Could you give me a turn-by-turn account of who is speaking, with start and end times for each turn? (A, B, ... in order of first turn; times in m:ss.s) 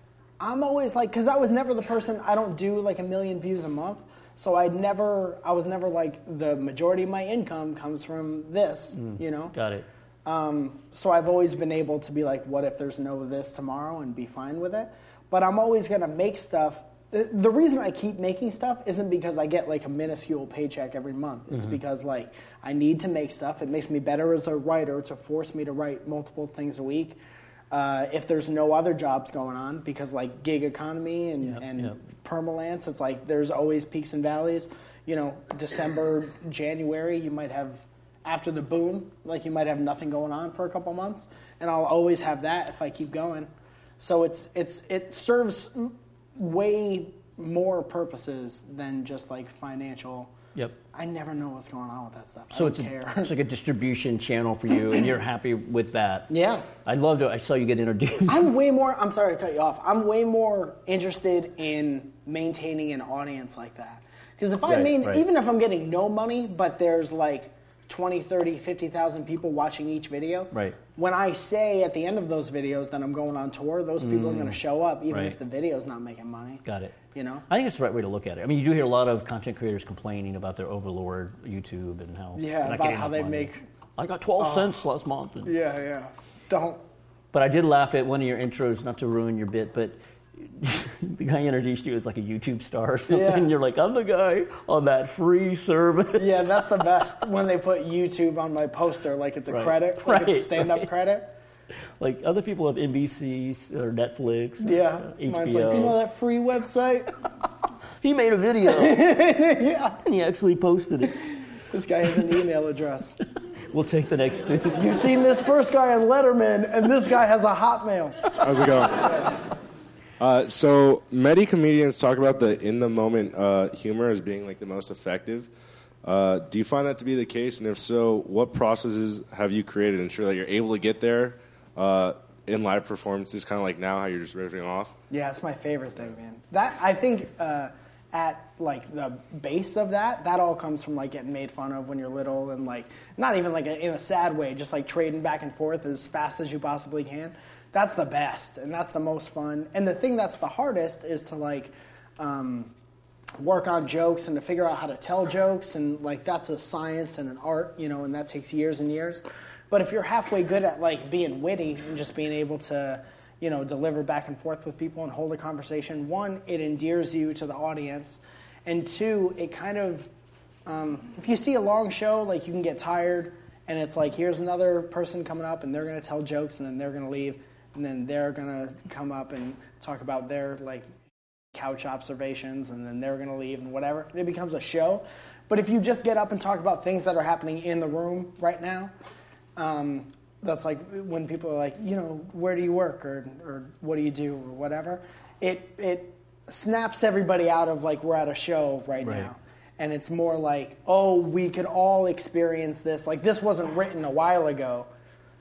0:00.4-0:09.6 A
0:09.0-0:09.9 B
0:10.2-0:27.2 A
0:21.5-0:21.8 B
0:27.7-0:50.3 A
0:31.4-0:32.0 B
0:50.9-0:53.3 A
0:52.5-0:58.5 B
0:56.3-0:56.7 A
0:58.3-1:17.5 A
1:04.7-1:05.2 B
1:10.5-1:10.8 B
1:14.0-1:14.6 B
1:15.1-1:15.4 B
1:16.6-1:17.0 B
1:17.5-1:25.5 B
1:22.4-1:23.6 A
1:24.4-1:24.8 A
1:25.4-1:26.8 A
1:27.3-1:36.3 B
1:33.1-1:33.5 A
1:36.2-1:41.3 A
1:39.5-1:40.9 B
1:42.0-1:46.0 B
1:44.6-1:47.1 A
1:48.0-1:49.1 B
1:48.6-1:50.0 A
1:50.0-1:51.2 B
1:51.3-1:53.2 A
1:53.7-1:54.9 B
1:54.8-1:58.3 A
1:58.4-1:59.2 C
2:00.2-2:05.5 C
2:06.0-2:14.9 C
2:15.1-2:32.7 A
2:33.4-2:50.1 A
2:50.7-3:00.9 A
3:01.5-3:08.9 A
3:09.6-3:24.9 A
3:19.0-3:19.3 B